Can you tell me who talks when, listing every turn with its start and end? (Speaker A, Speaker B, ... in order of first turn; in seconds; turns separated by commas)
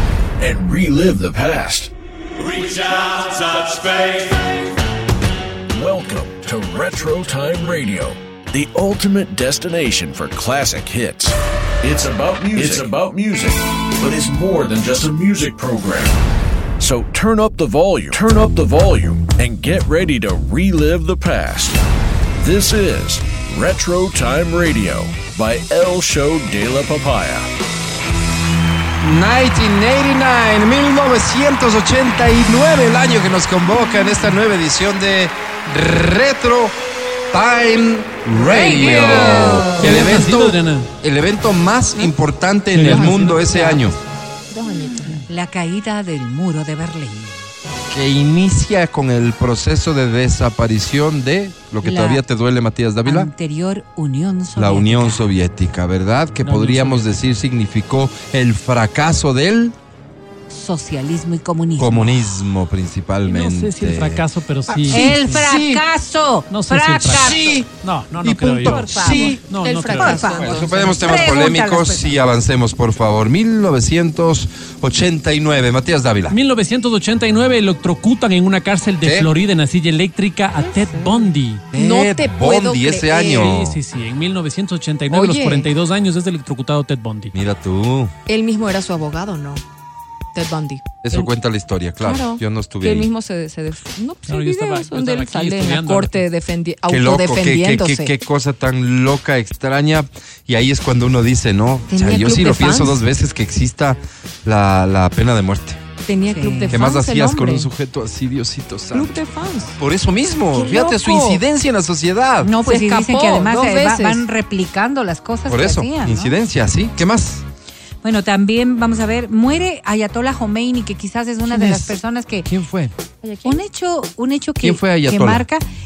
Speaker A: 0.4-1.9, Speaker A: 2.8-4.2, Speaker A: 5.7-16.2, Speaker A: 16.8-21.8, Speaker A: 22.4-27.5, Speaker B: 29.0-36.7, Speaker B: 37.3-44.0, Speaker C: 38.3-40.1, Speaker D: 38.8-40.9, Speaker D: 42.7-43.3, Speaker E: 42.8-43.8, Speaker C: 43.4-43.8, Speaker E: 44.5-45.2, Speaker C: 45.1-47.5, Speaker B: 47.9-53.3, Speaker C: 51.8-52.2, Speaker C: 53.0-55.3, Speaker B: 54.5-59.7, Speaker D: 56.4-57.1, Speaker C: 60.5-62.4, Speaker B: 61.8-65.8, Speaker D: 63.2-65.5, Speaker C: 64.9-67.6, Speaker D: 66.5-71.0, Speaker B: 67.1-67.7, Speaker B: 68.2-69.4, Speaker C: 68.6-69.3, Speaker E: 69.0-70.8, Speaker C: 69.9-72.1, Speaker B: 70.3-76.4, Speaker D: 76.3-81.6, Speaker B: 79.0-79.3, Speaker B: 81.7-83.8, Speaker E: 81.7-83.5, Speaker D: 83.3-87.3, Speaker E: 85.1-85.7, Speaker B: 87.3-88.1, Speaker E: 88.3-89.6, Speaker E: 90.3-91.3, Speaker B: 91.0-93.1, Speaker E: 92.0-98.2, Speaker D: 94.3-96.2, Speaker B: 96.9-105.8, Speaker C: 101.9-103.0, Speaker E: 106.0-107.7, Speaker C: 106.3-106.8, Speaker B: 106.7-109.1, Speaker E: 108.9-109.8, Speaker B: 109.8-112.5, Speaker E: 110.5-111.4, Speaker C: 112.4-116.4, Speaker E: 112.6-114.2, Speaker B: 115.5-117.4, Speaker C: 118.0-122.5, Speaker B: 121.5-122.0, Speaker B: 122.5-123.0, Speaker E: 123.2-123.6, Speaker C: 123.4-125.6, Speaker B: 124.6-125.5